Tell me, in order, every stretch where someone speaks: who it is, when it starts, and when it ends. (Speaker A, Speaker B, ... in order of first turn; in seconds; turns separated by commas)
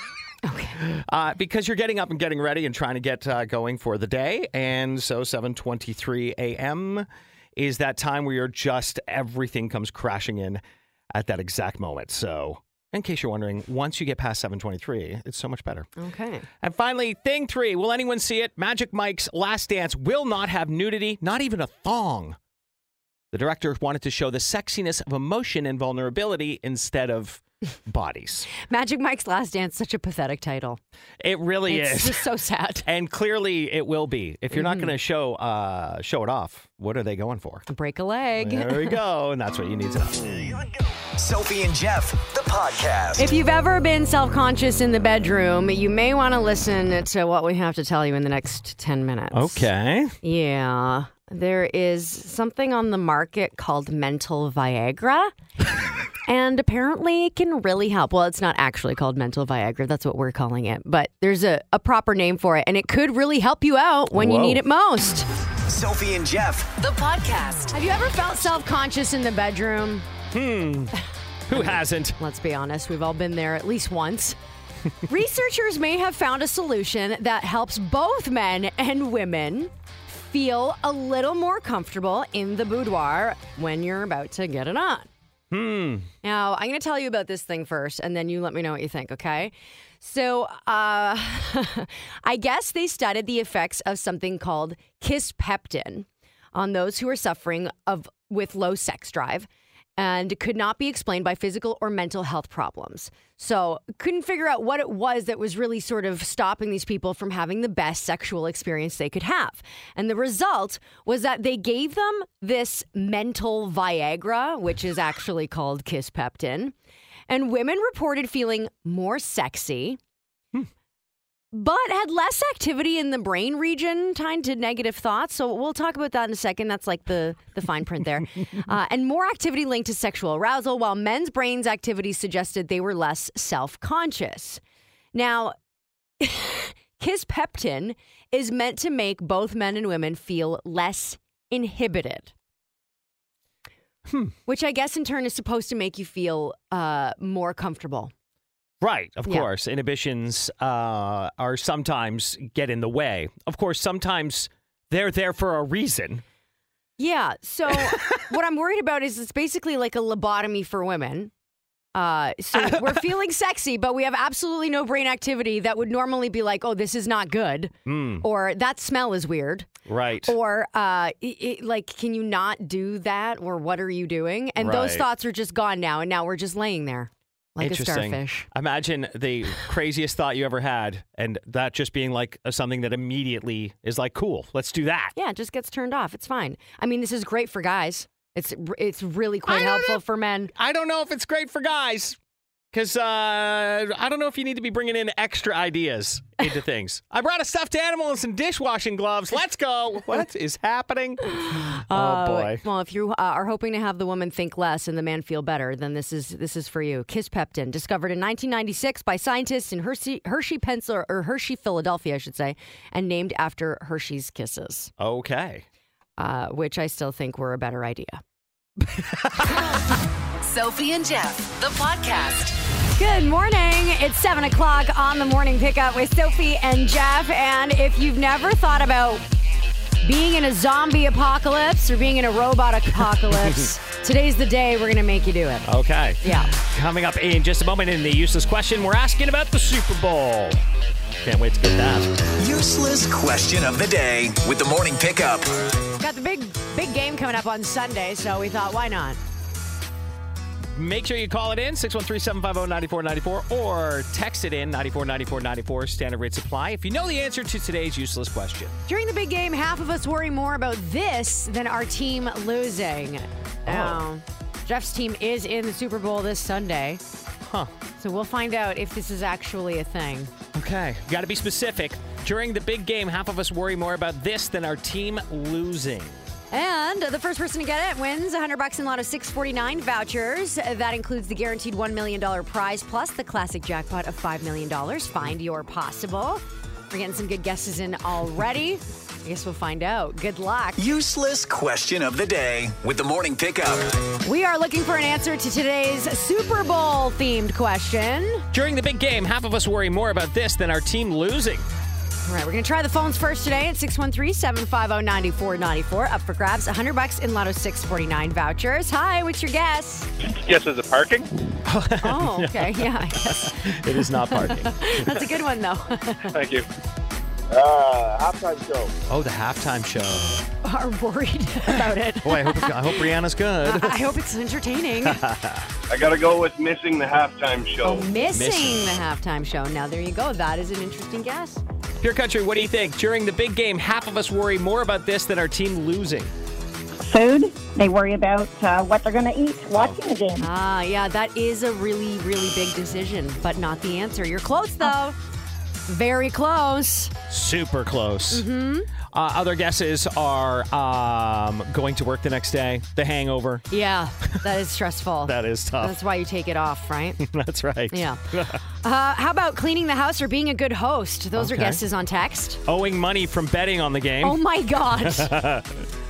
Speaker A: 0.4-0.8, Speaker B: 0.8-10.6, Speaker B: 11.1-15.9, Speaker A: 16.0-16.5, Speaker B: 16.6-22.4, Speaker B: 23.3-28.5, Speaker A: 28.6-30.8, Speaker B: 31.2-32.2, Speaker A: 31.7-32.9, Speaker B: 32.8-37.6, Speaker A: 34.5-34.9, Speaker A: 37.7-39.0, Speaker B: 38.4-40.6, Speaker C: 41.1-43.3, Speaker A: 43.2-49.7, Speaker B: 49.3-50.1, Speaker A: 50.2-55.3, Speaker A: 56.3-65.3, Speaker B: 64.1-64.6, Speaker C: 65.7-66.7, Speaker D: 66.8-67.7, Speaker A: 67.7-70.1, Speaker B: 70.3-71.0, Speaker B: 71.5-72.2, Speaker A: 71.5-74.4, Speaker A: 75.0-85.1, Speaker B: 85.5-86.1, Speaker A: 86.2-116.7, Speaker A: 117.3-120.0, Speaker A: 121.5-134.6, Speaker A: 135.1-135.6, Speaker A: 136.2-142.3, Speaker B: 144.1-144.3, Speaker A: 144.4-148.1, Speaker B: 148.8-156.2, Speaker A: 157.0-161.3, Speaker B: 157.7-158.0, Speaker A: 161.9-169.7, Speaker B: 162.5-163.1, Speaker B: 167.8-168.2, Speaker B: 169.8-170.3, Speaker A: 170.2-178.5, Speaker B: 174.6-175.1, Speaker B: 177.6-185.1, Speaker A: 185.2-190.5, Speaker B: 189.5-190.0, Speaker B: 190.5-192.2, Speaker B: 192.7-202.6, Speaker A: 201.3-214.9, Speaker B: 215.0-215.7, Speaker A: 216.2-218.2, Speaker B: 218.9-219.7, Speaker D: 220.4-222.6, Speaker A: 223.0-229.2, Speaker A: 230.0-235.7, Speaker B: 233.2-233.6, Speaker B: 235.6-240.6, Speaker A: 236.2-236.5, Speaker B: 241.2-242.2, Speaker C: 242.4-245.7, Speaker A: 246.0-249.2, Speaker B: 250.7-258.8, Speaker A: 258.9-267.0, Speaker B: 263.6-264.0, Speaker B: 267.4-267.7, Speaker A: 268.0-270.3, Speaker B: 270.5-276.2, Speaker A: 276.5-290.8, Speaker C: 290.8-294.0, Speaker A: 294.2-298.4, Speaker B: 298.5-301.7, Speaker A: 302.2-310.1, Speaker E: 310.2-311.3, Speaker B: 311.6-315.3, Speaker A: 312.0-316.3, Speaker E: 316.3-316.7, Speaker E: 317.5-318.9, Speaker B: 319.1-320.4, Speaker A: 320.6-323.0, Speaker B: 321.7-324.0, Speaker A: 323.6-325.2, Speaker B: 325.0-325.7, Speaker E: 325.9-328.1, Speaker A: 327.8-331.6, Speaker B: 328.3-329.0, Speaker B: 332.0-336.3, Speaker F: 337.0-340.4, Speaker B: 339.7-340.0, Speaker A: 340.4-345.1, Speaker A: 345.9-347.1, Speaker B: 347.3-348.4, Speaker A: 348.3-348.9, Speaker B: 349.1-353.6, Speaker A: 353.7-357.2, Speaker B: 355.2-356.0, Speaker B: 357.2-358.6, Speaker A: 357.9-362.6, Speaker B: 361.4-361.8, Speaker B: 362.6-364.4, Speaker A: 364.2-365.3, Speaker B: 365.0-365.8